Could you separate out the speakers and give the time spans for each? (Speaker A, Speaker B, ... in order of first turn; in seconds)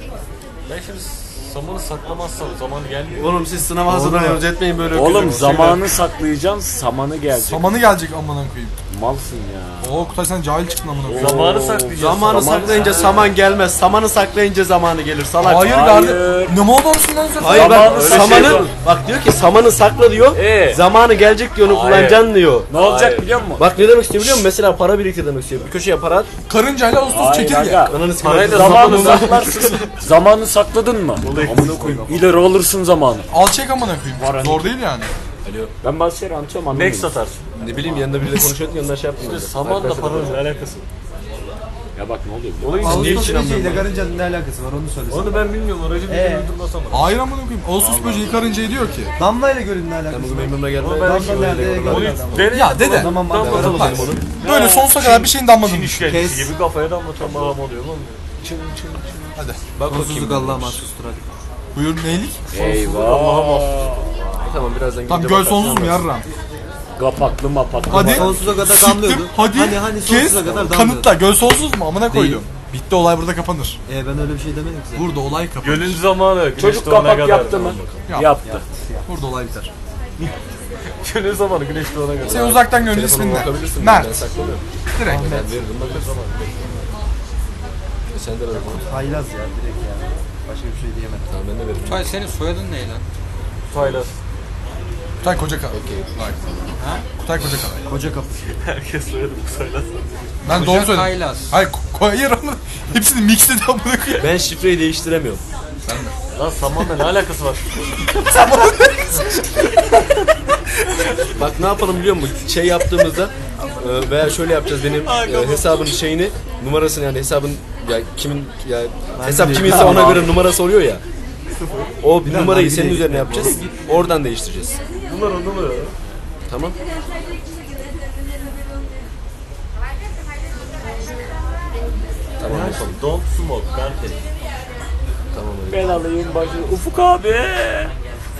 Speaker A: 0.7-3.4, 11.1-13.2, 17.8-18.7, 21.6-23.3, 28.0-29.7, 31.2-32.1, 36.7-37.4, 39.2-40.9, 42.6-43.4, 45.1-47.1, 47.8-48.2, 50.8-58.2, 62.5-64.4, 75.6-78.0, 81.0-82.7, 85.8-86.8, 93.7-94.2, 98.5-100.1, 106.3-107.9, 115.0-116.0, 125.0-125.9, 132.7-134.2
Speaker B: 3.1-5.8, 11.9-15.9, 17.4-22.7, 23.6-26.3, 27.9-29.9, 31.2-32.3, 35.4-35.7, 37.5-40.4, 42.6-43.9, 50.1-52.5, 53.3-54.2, 59.8-60.9, 64.4-66.0, 82.2-84.6, 85.2-86.1, 88.1-88.9, 91.3-92.1, 93.8-94.0, 95.7-96.1, 104.2-105.4, 111.4-121.0, 122.0-124.8, 126.5-126.8, 132.4-133.0, 135.3-135.9
Speaker C: 3.8-4.6, 42.8-45.5, 46.0-46.5, 49.2-54.2, 56.1-56.5, 59.9-61.3, 67.9-71.2, 72.1-72.4, 73.9-75.2, 78.4-79.1, 85.0-85.7, 88.5-91.3, 97.8-98.3, 119.1-120.4, 122.2-123.8, 132.4-132.9
Speaker D: 4.9-7.9, 8.9-10.0, 11.1-13.3, 15.7-16.6, 17.4-18.7, 20.3-20.8, 22.7-23.7, 27.1-33.3, 34.2-34.7, 35.8-37.1, 42.0-43.2, 58.4-59.4, 62.5-64.1, 67.0-68.5, 76.5-78.6, 135.7-137.9
Speaker E: 7.3-8.8, 9.8-11.5, 15.4-18.1, 26.5-27.9, 33.3-35.1, 46.9-49.1, 52.5-56.2, 61.8-62.4, 65.1-66.3, 67.9-73.8, 74.9-76.0, 78.1-78.3, 79.1-79.7, 82.2-84.2, 84.9-85.3, 95.2-96.4, 97.2-97.8, 100.4-104.3, 105.8-106.1, 108.3-109.2
Speaker F: 91.8-93.0, 96.8-97.0, 100.5-101.5